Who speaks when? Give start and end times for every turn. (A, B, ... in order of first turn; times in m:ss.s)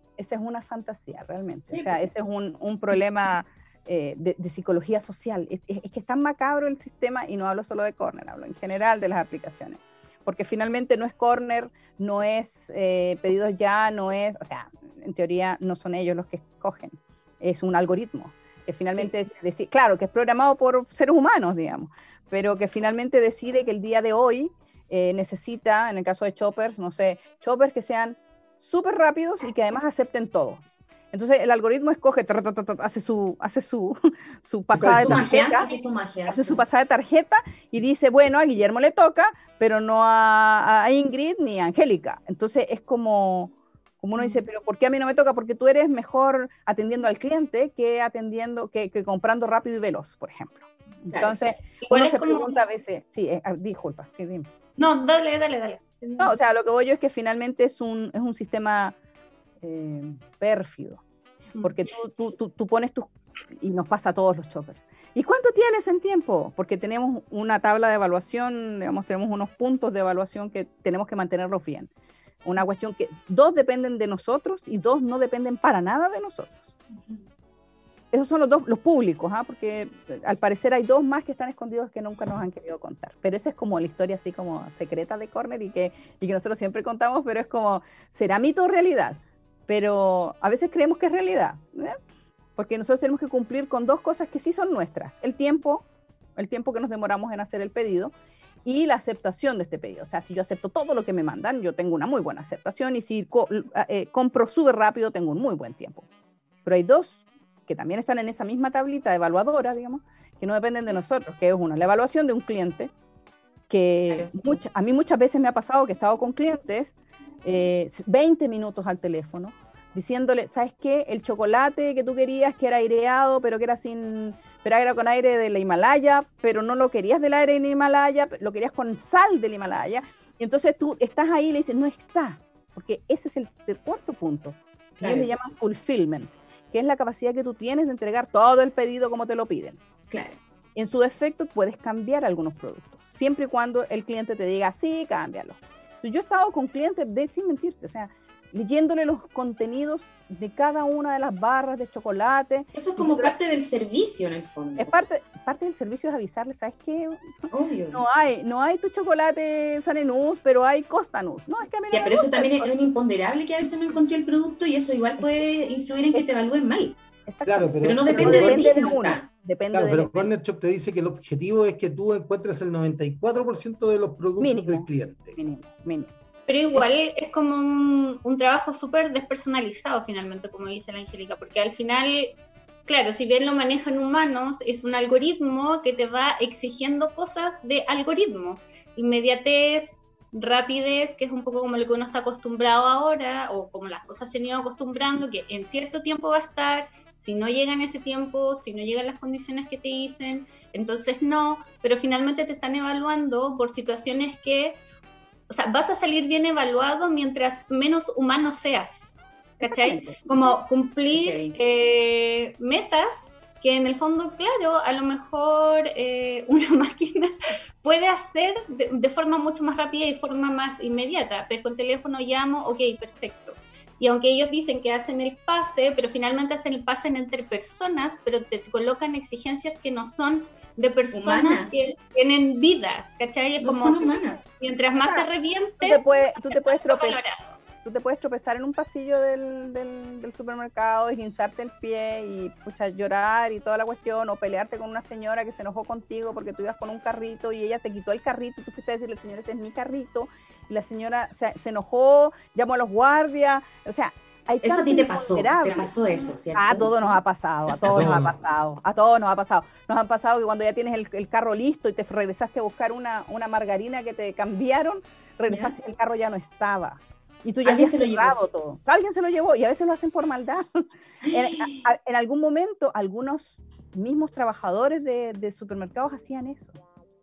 0:00.2-0:35.7 A
0:01.7-0:02.0 B
0:34.7-0:35.3 C
0:34.8-0:36.6 B
0:36.3-0:54.5 A
0:44.2-0:44.4 B
0:51.8-0:52.6 D
0:54.8-0:56.3 D
0:56.2-0:58.9 A
0:59.6-1:01.0 A
1:01.6-1:11.9 A
1:12.4-1:16.7 A
1:18.1-1:32.0 A
1:32.6-1:35.8 A
1:36.4-1:38.1 A
1:38.6-1:46.0 A
1:46.6-1:52.9 A
1:53.7-1:56.9 A
1:57.4-2:19.8 A
2:15.0-2:15.3 B
2:20.1-2:20.4 B
2:20.8-2:33.3 A
2:32.7-2:34.9 B
2:34.8-2:42.7 A
2:37.5-2:38.0 B
2:41.9-2:47.0 B
2:47.3-2:50.3 A
2:47.4-2:48.7 C
2:47.8-2:49.2 B
2:49.7-2:55.4 C
2:54.4-2:56.1 A
2:56.5-3:24.8 D
3:25.5-3:57.5 D
3:29.6-3:30.2 A
3:31.1-3:31.5 B
3:51.1-3:51.7 B
3:53.6-3:54.4 B
3:55.8-3:57.2 A
3:57.8-4:15.9 A
4:14.6-4:16.9 B
4:16.5-4:30.6 A
4:17.7-4:18.1 B
4:17.9-4:18.3 C
4:27.6-4:28.3 B
4:31.2-4:31.8 B
4:31.3-4:36.8 A